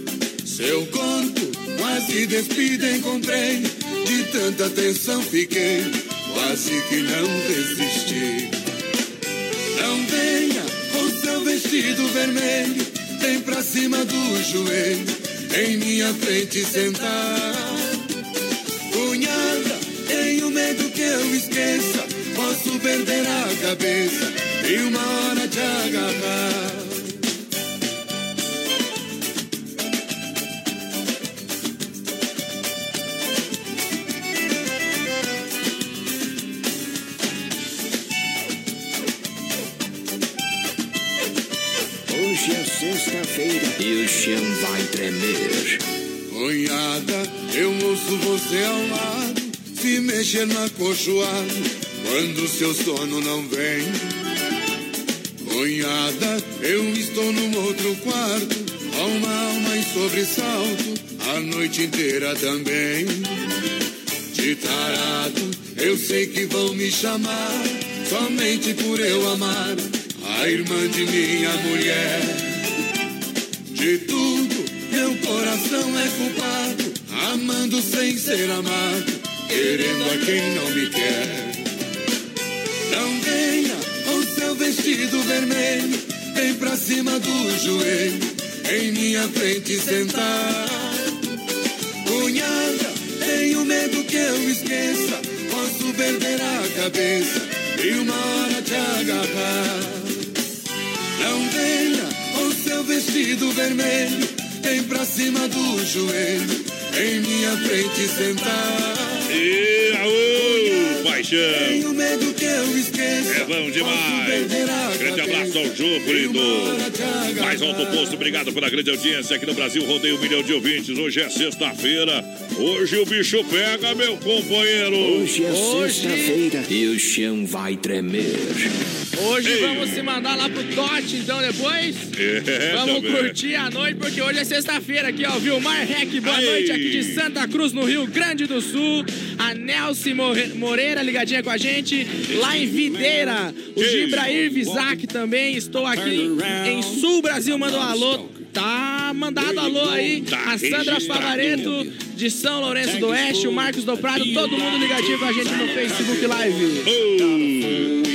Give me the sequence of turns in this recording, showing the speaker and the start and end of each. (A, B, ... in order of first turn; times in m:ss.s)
0:00.4-0:08.5 A
0:09.7-0:17.9 A
0:18.9-0:27.1 A
0:42.1-0:45.8 B
0:46.3-0:54.0 A
0:55.4-1:03.4 A
1:04.3-1:12.4 A
1:13.7-1:21.6 A
1:22.9-1:31.0 A
1:32.0-1:40.2 A
1:41.2-1:49.3 A
1:49.3-1:51.8 C
1:50.3-1:58.3 A
1:53.3-1:56.8 C
1:57.4-2:05.4 C
2:05.0-2:08.7 B
2:05.5-2:06.4 D
2:09.2-2:12.1 D
2:09.4-2:10.0 C
2:12.1-2:13.4 C
2:12.7-2:36.8 D
2:16.2-2:17.2 C
2:23.8-2:24.8 C
2:29.8-2:31.9 C
2:33.1-2:33.4 C
2:36.8-2:38.0 C